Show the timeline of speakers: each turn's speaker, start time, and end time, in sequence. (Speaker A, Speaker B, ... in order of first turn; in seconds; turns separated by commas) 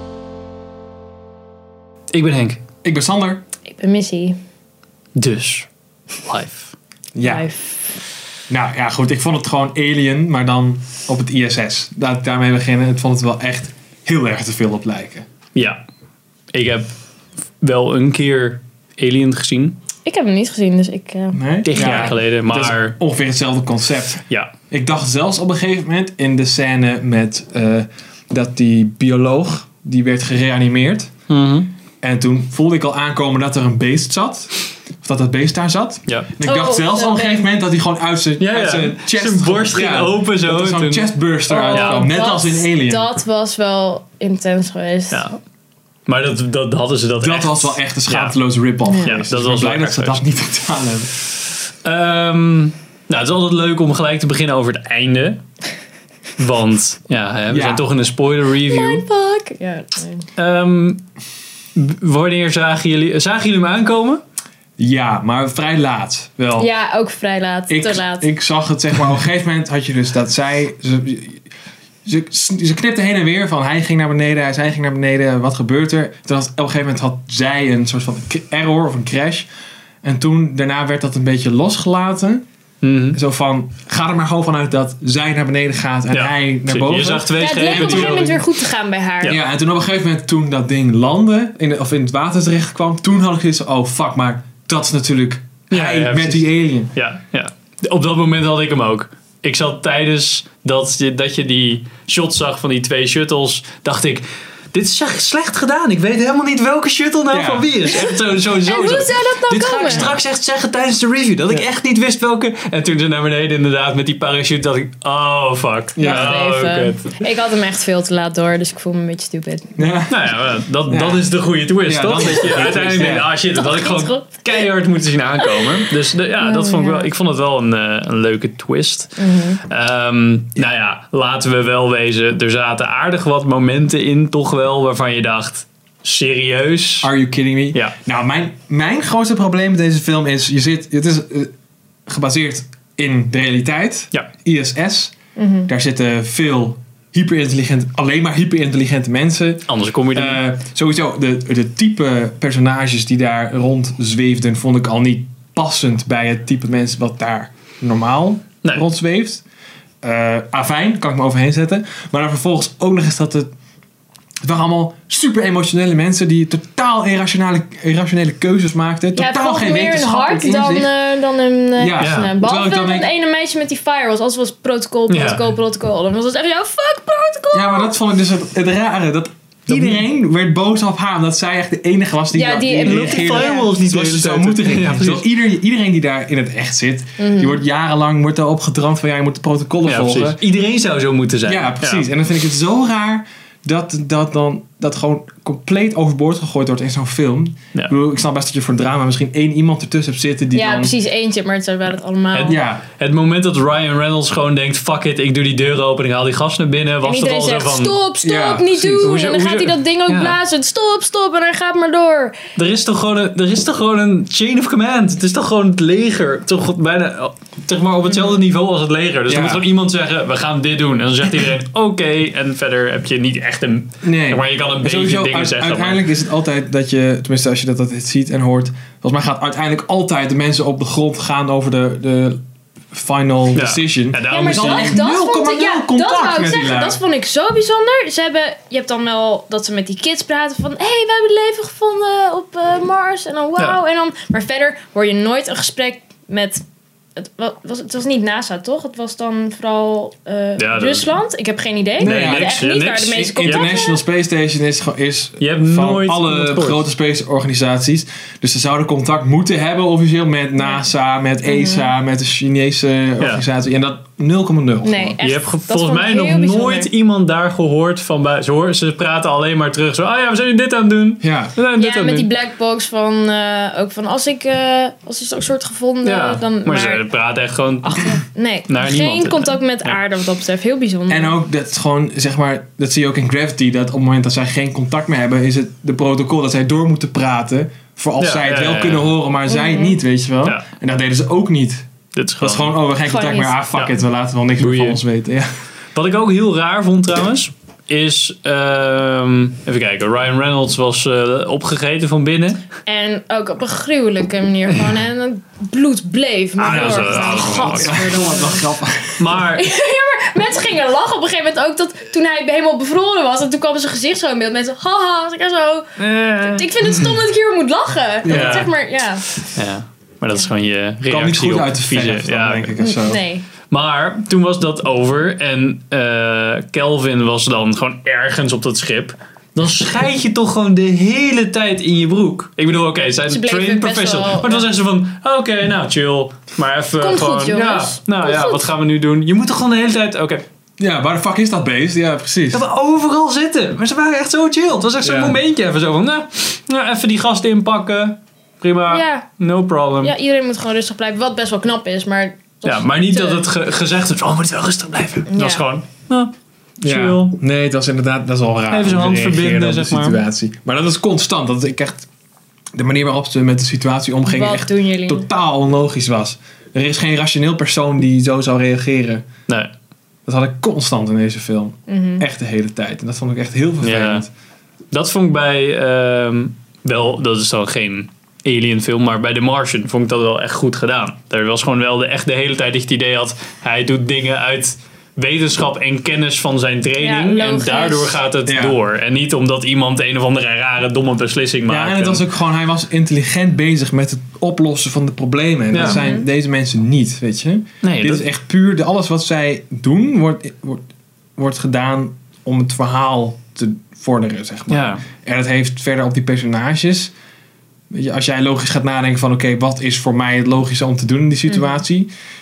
Speaker A: 2.1-2.6, Speaker B: 2.8-3.4, Speaker C: 3.7-4.4, Speaker A: 5.2-5.7, Speaker A: 6.2-6.7, Speaker B: 7.1-7.5, Speaker C: 7.2-7.8, Speaker B: 8.5-15.2, Speaker A: 16.5-16.9, Speaker A: 17.6-19.8, Speaker C: 20.0-22.1, Speaker B: 21.3-31.1, Speaker A: 21.7-22.9, Speaker A: 31.3-31.7, Speaker B: 32.0-43.1, Speaker C: 36.4-37.5, Speaker A: 38.4-41.1, Speaker C: 41.5-45.2, Speaker A: 41.7-42.0, Speaker A: 45.1-45.4, Speaker A: 46.1-48.4, Speaker B: 47.2-51.1, Speaker C: 48.9-49.2, Speaker A: 49.0-50.2, Speaker A: 51.8-55.4, Speaker A: 56.4-59.0, Speaker B: 57.5-57.9, Speaker C: 58.6-60.3, Speaker A: 60.4-61.0, Speaker A: 61.7-64.2, Speaker B: 64.8-66.7, Speaker C: 66.6-68.3, Speaker B: 67.7-71.4, Speaker B: 72.0-79.5, Speaker B: 80.0-82.4, Speaker A: 82.8-83.2, Speaker B: 83.1-88.4, Speaker A: 86.1-88.2, Speaker C: 87.3-89.4, Speaker B: 89.2-96.9, Speaker A: 95.7-117.2, Speaker B: 107.3-107.9, Speaker C: 107.9-110.1, Speaker C: 116.0-119.7, Speaker B: 116.0-116.4, Speaker B: 119.8-120.3, Speaker A: 120.1-137.1, Speaker B: 120.9-121.3, Speaker B: 121.8-123.3, Speaker C: 123.5-124.6, Speaker C: 125.4-127.1, Speaker C: 129.2-129.6, Speaker B: 137.0-141.5, Speaker B: 142.1-145.1, Speaker C: 145.3-145.7, Speaker B: 145.7-159.4, Speaker A: 149.7-150.4, Speaker B: 160.0-163.5, Speaker B: 164.4-170.9, Speaker C: 169.1-177.9, Speaker B: 171.8-173.1, Speaker A: 172.0-172.3, Speaker A: 175.1-175.5, Speaker B: 177.5-190.4, Speaker A: 179.7-180.0, Speaker C: 182.3-183.7, Speaker A: 182.8-185.3, Speaker C: 187.2-187.6, Speaker A: 189.8-192.1, Speaker B: 191.4-200.9, Speaker C: 200.5-202.6, Speaker A: 202.3-208.0, Speaker B: 202.4-202.8, Speaker C: 207.0-212.4, Speaker B: 208.2-209.1, Speaker A: 209.0-210.4, Speaker A: 212.6-226.0, Speaker B: 219.3-219.6, Speaker B: 224.0-232.4, Speaker B: 232.9-237.0, Speaker A: 233.5-234.9, Speaker C: 234.3-246.6, Speaker C: 247.2-254.0, Speaker A: 250.6-251.1, Speaker B: 252.0-252.6, Speaker A: 252.0-253.7, Speaker B: 253.1-265.2, Speaker A: 255.4-256.8, Speaker C: 261.4-261.9, Speaker C: 264.8-266.9, Speaker A: 265.2-272.3, Speaker B: 271.2-271.5, Speaker C: 271.8-277.0, Speaker A: 276.0-279.9, Speaker C: 277.8-281.4, Speaker B: 281.1-291.9, Speaker A: 288.2-289.1, Speaker C: 289.5-290.0, Speaker A: 292.1-292.8, Speaker B: 292.4-295.5, Speaker C: 293.1-293.6, Speaker A: 294.6-295.0, Speaker A: 295.9-302.6, Speaker C: 302.9-308.6, Speaker A: 306.6-308.1, Speaker B: 306.6-309.4, Speaker A: 309.2-309.6, Speaker C: 309.5-319.2, Speaker A: 316.0-317.2, Speaker B: 318.2-318.7, Speaker A: 318.3-318.7, Speaker A: 319.5-322.8, Speaker B: 321.1-323.2, Speaker C: 322.8-323.4, Speaker A: 323.7-340.4, Speaker C: 333.3-334.7, Speaker C: 337.0-338.6, Speaker B: 340.8-342.6, Speaker A: 342.5-350.1, Speaker B: 345.0-345.4, Speaker C: 348.9-349.3, Speaker C: 350.0-353.4, Speaker A: 352.6-357.4, Speaker C: 355.3-355.6, Speaker B: 356.8-362.1, Speaker A: 358.7-360.2, Speaker B: 362.7-369.3, Speaker C: 364.2-365.2, Speaker B: 370.2-374.3, Speaker C: 371.9-372.2, Speaker A: 373.8-374.2, Speaker A: 374.9-392.2, Speaker C: 387.0-388.2, Speaker B: 388.4-388.8, Speaker B: 391.7-407.1, Speaker A: 395.7-396.0, Speaker C: 395.8-396.2, Speaker A: 397.8-398.2, Speaker A: 404.7-405.0, Speaker B: 407.9-412.1, Speaker C: 411.5-411.8